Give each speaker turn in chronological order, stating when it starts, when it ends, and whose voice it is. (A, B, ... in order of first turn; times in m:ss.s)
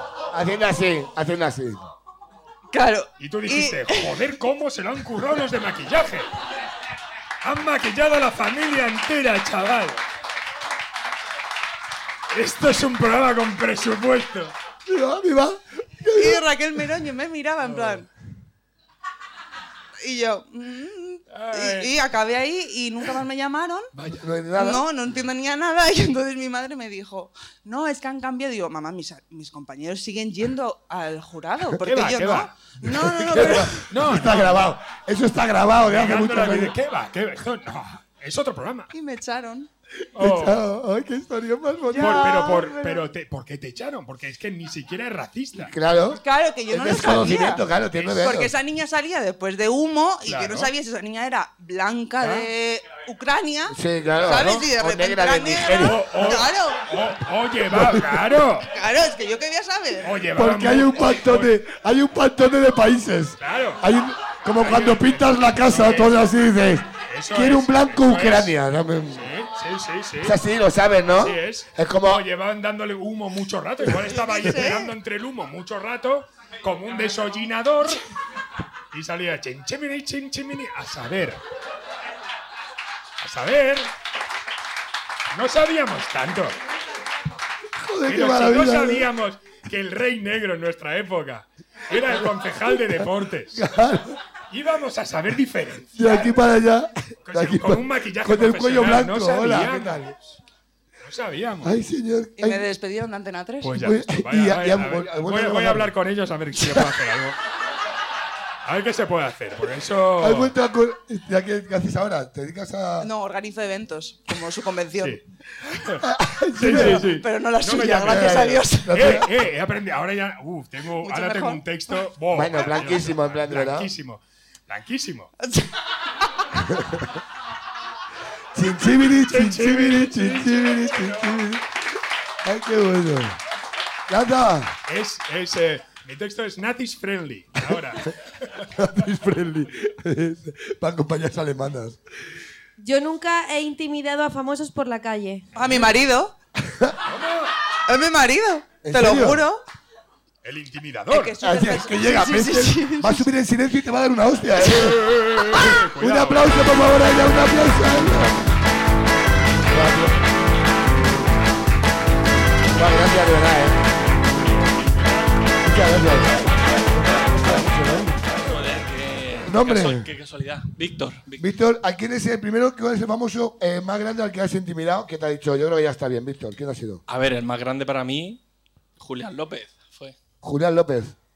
0:00.3-0:01.9 A
0:02.7-0:04.2 B
0:03.2-0:06.3 C
0:07.4-0:10.0 C
0:12.3-0:14.5 C
0:14.9-0:16.4 A
0:16.1-0:18.0 B
0:17.6-0:18.0 C
0:20.0-0:23.9 B
0:21.3-0:21.9 C
0:23.9-0:24.3 C
0:24.2-0:24.9 A
0:24.5-0:33.8 B
0:31.8-0:34.8 C
0:32.9-0:36.8 A
0:35.8-0:38.9 C
0:38.9-0:39.7 B
0:40.1-0:40.7 C
0:40.1-0:43.0 A
0:41.9-0:45.7 C
0:42.0-0:42.5 B
0:45.6-0:48.5 A
0:46.1-0:56.9 B
0:50.2-0:50.7 C
0:52.2-0:52.5 C
0:53.7-0:56.3 A
0:54.2-0:54.6 C
0:55.7-0:58.7 C
0:57.7-0:58.2 A
0:58.7-1:00.2 B
1:00.0-1:01.6 C
1:00.3-1:09.3 A
1:03.4-1:03.8 C
1:04.5-1:06.3 C
1:07.0-1:08.5 C
1:09.1-1:10.4 C
1:10.2-1:12.3 A
1:11.2-1:18.0 C
1:14.1-1:14.9 B
1:18.9-1:21.4 C
1:23.2-1:23.9 C
1:25.3-1:26.6 C
1:27.8-1:29.1 A
1:28.0-1:33.6 C
1:31.9-1:32.2 A
1:32.8-1:34.2 A
1:34.5-1:36.3 C
1:36.0-1:40.1 A
1:37.2-1:40.4 C
1:41.0-1:41.7 C
1:41.6-1:42.7 A
1:42.4-1:43.8 B
1:43.6-1:47.4 C
1:43.7-1:45.9 A
1:46.6-1:46.9 A
1:48.6-1:50.5 C
1:50.2-1:53.1 A
1:53.0-1:55.2 B
1:55.0-1:56.0 C
1:56.0-1:57.2 A
1:56.6-2:05.3 C
1:56.7-1:59.0 B
1:58.0-1:59.3 A
2:01.0-2:01.6 B
2:02.3-2:03.9 A
2:05.4-2:05.7 B
2:06.6-2:07.2 A
2:08.5-2:11.9 A
2:08.9-2:11.5 C
2:12.4-2:13.4 A
2:14.1-2:14.8 A
2:14.9-2:18.6 C
2:18.7-2:22.0 A
2:22.8-2:25.5 D
2:25.6-2:26.4 B
2:26.6-2:27.0 A
2:27.1-2:27.5 C
2:27.9-2:29.6 B
2:28.8-2:29.4 A
2:30.4-2:31.4 C
2:31.1-2:33.2 B
2:31.4-2:38.4 A
2:34.6-2:36.6 C
2:39.7-2:40.1 A
2:42.7-2:43.8 A
2:45.6-2:48.2 A
2:48.3-2:51.5 E
2:49.5-2:50.1 A
2:51.4-2:57.0 A
2:57.1-2:58.4 E
2:59.0-3:00.1 E
3:00.4-3:01.1 A